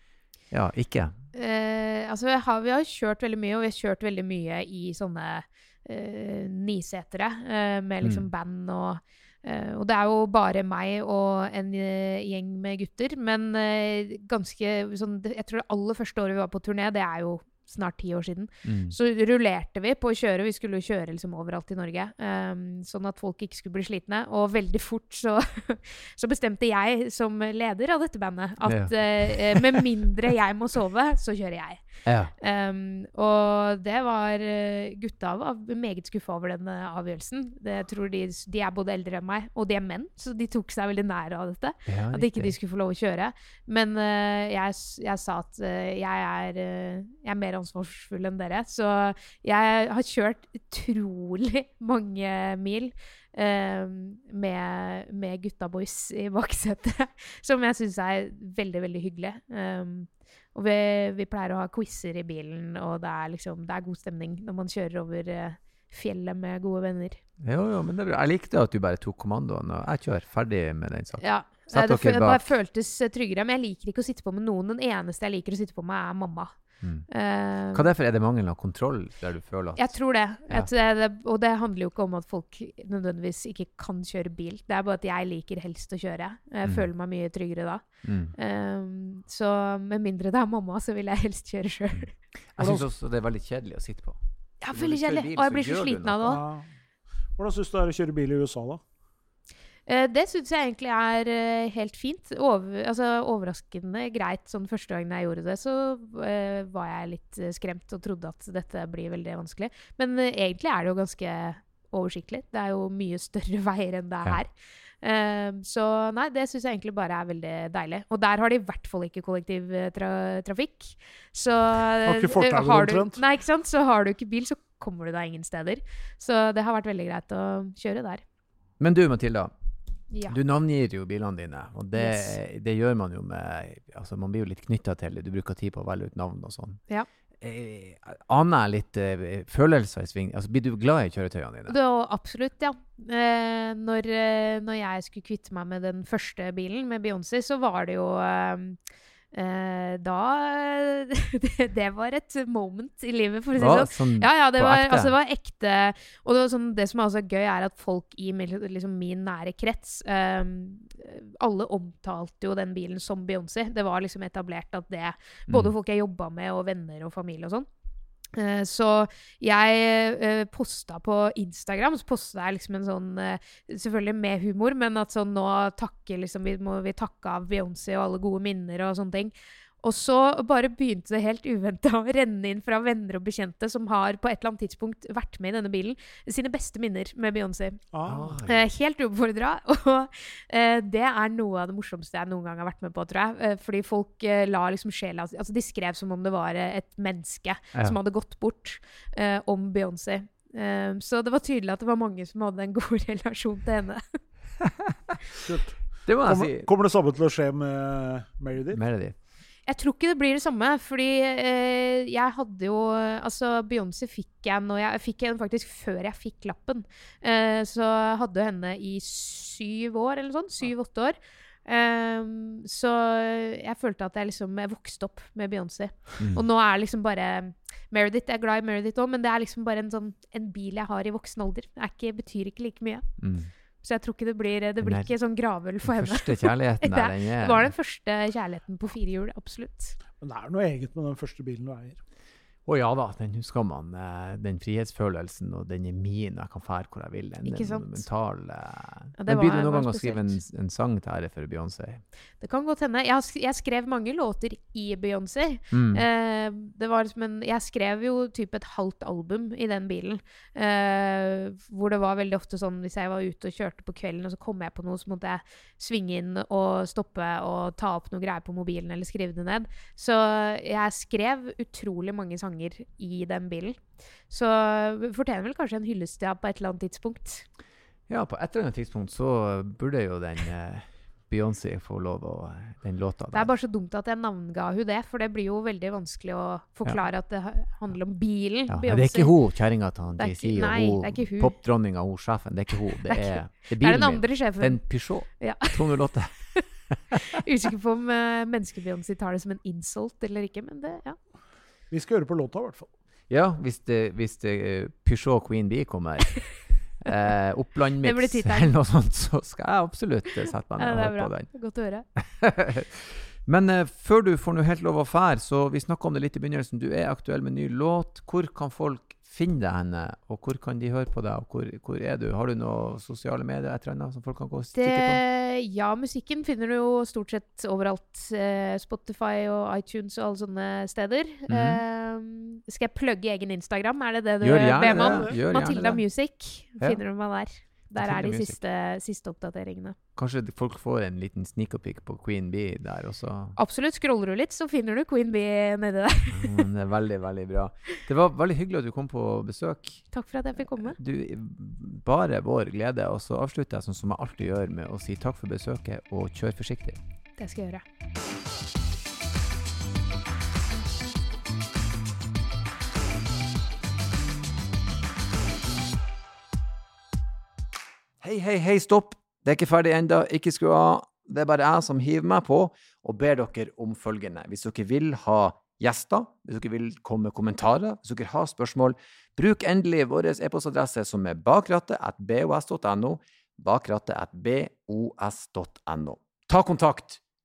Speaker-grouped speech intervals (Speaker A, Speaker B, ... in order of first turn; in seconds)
Speaker A: 0.5-1.2, 8.0-8.3, 18.6-18.9, 28.6-29.8, 32.1-32.3, 41.9-42.5, 67.4-72.5, 76.8-77.1, 77.7-79.9, 88.0-88.3, 92.0-94.2, 94.7-96.4, 128.8-129.5, 130.3-136.8, 137.4-141.8, 153.6-155.1, 188.1-188.7, 204.6-205.1, 206.1-206.7, 208.7-209.2, 233.2-233.5, 234.8-235.1, 235.8-237.7, 242.7-252.0, 255.7-256.0, 278.1-283.5, 288.7-297.4, 303.3-311.5, 312.2-325.2, 331.5-331.8, 334.4-336.0, 338.0-338.6, 340.2-343.6, 346.3-350.1, 350.8-357.0, 368.2-387.2
Speaker B: 1.3-31.8, 32.4-67.2, 71.2-76.5, 77.1-77.9, 79.8-92.1, 94.6-96.4, 99.9-114.5, 115.0-128.2, 130.1-130.4, 131.9-132.4, 141.7-148.8, 149.3-167.7, 168.3-187.8, 188.4-204.2, 209.7-233.1, 233.8-240.0, 247.4-248.1, 249.2-250.4, 252.4-277.5, 283.3-289.3, 290.2-291.6, 293.0-295.9, 297.3-301.2, 308.0-308.8, 310.8-312.1, 324.8-340.0, 343.6-346.6, 350.1-351.0, 357.4-357.8
Speaker C: 92.6-92.8, 96.3-96.7, 97.4-98.8, 122.0-123.2, 187.9-188.4, 205.4-208.8, 240.2-242.0, 301.9-302.9, 334.8-335.4